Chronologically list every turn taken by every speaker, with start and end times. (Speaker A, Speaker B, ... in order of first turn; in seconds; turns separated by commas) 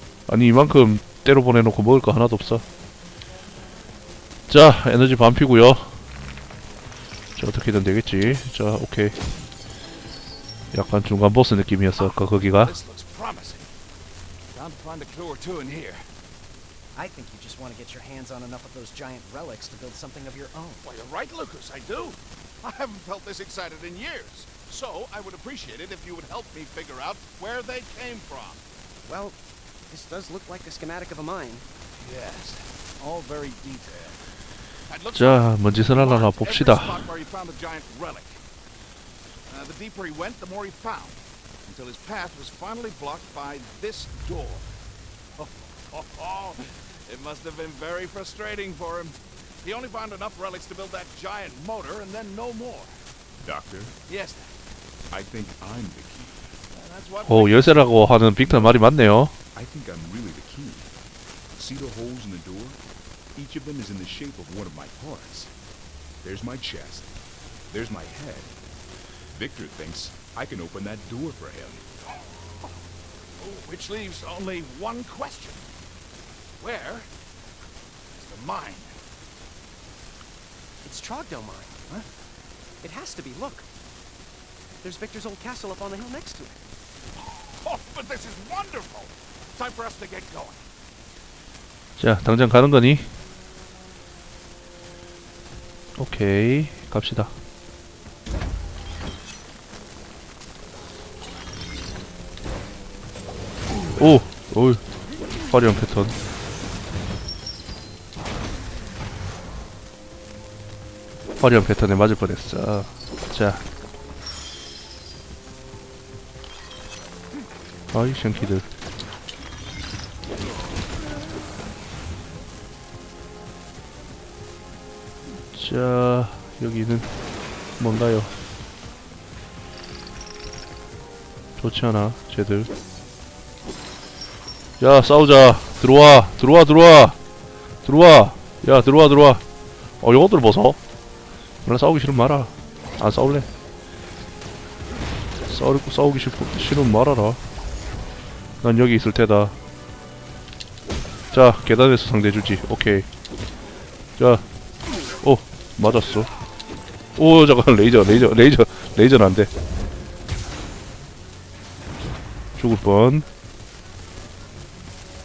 Speaker A: 0.3-2.6, Speaker A: 4.5-5.9, Speaker A: 7.4-9.2, Speaker A: 10.7-12.7, Speaker B: 11.9-13.7, Speaker B: 14.5-16.0, Speaker C: 16.9-20.9, Speaker B: 20.8-28.6, Speaker C: 29.1-29.4, Speaker C: 29.9-31.6, Speaker B: 32.0-34.2, Speaker B: 34.9-38.4, Speaker A: 35.1-37.1, Speaker B: 39.5-44.7, Speaker B: 45.4-52.9, Speaker D: 53.4-53.9, Speaker B: 54.1-54.5, Speaker D: 55.1-56.6, Speaker B: 56.7-57.9, Speaker A: 57.2-59.3, Speaker D: 59.5-60.9, Speaker D: 61.5-62.8, Speaker D: 63.3-65.5, Speaker D: 66.2-67.1, Speaker D: 67.7-68.5, Speaker D: 69.3-71.8, Speaker B: 73.4-75.7, Speaker B: 76.6-77.1, Speaker B: 78.1-78.9, Speaker C: 80.8-81.9, Speaker C: 82.8-83.7, Speaker C: 84.8-86.6, Speaker B: 87.5-90.7, Speaker A: 92.0-93.1, Speaker A: 96.0-97.3, Speaker A: 103.9-104.8, Speaker A: 105.5-106.2, Speaker A: 111.4-113.6, Speaker A: 117.9-118.7, Speaker A: 125.5-127.1, Speaker A: 127.8-128.3, Speaker A: 131.6-132.7, Speaker A: 134.8-137.2, Speaker A: 137.8-139.4, Speaker A: 140.0-140.8, Speaker A: 141.6-143.5, Speaker A: 145.5-147.4, Speaker A: 148.6-149.6, Speaker A: 151.3-153.1, Speaker A: 154.2-154.4, Speaker A: 155.2-156.3, Speaker A: 157.2-159.5, Speaker A: 162.6-163.2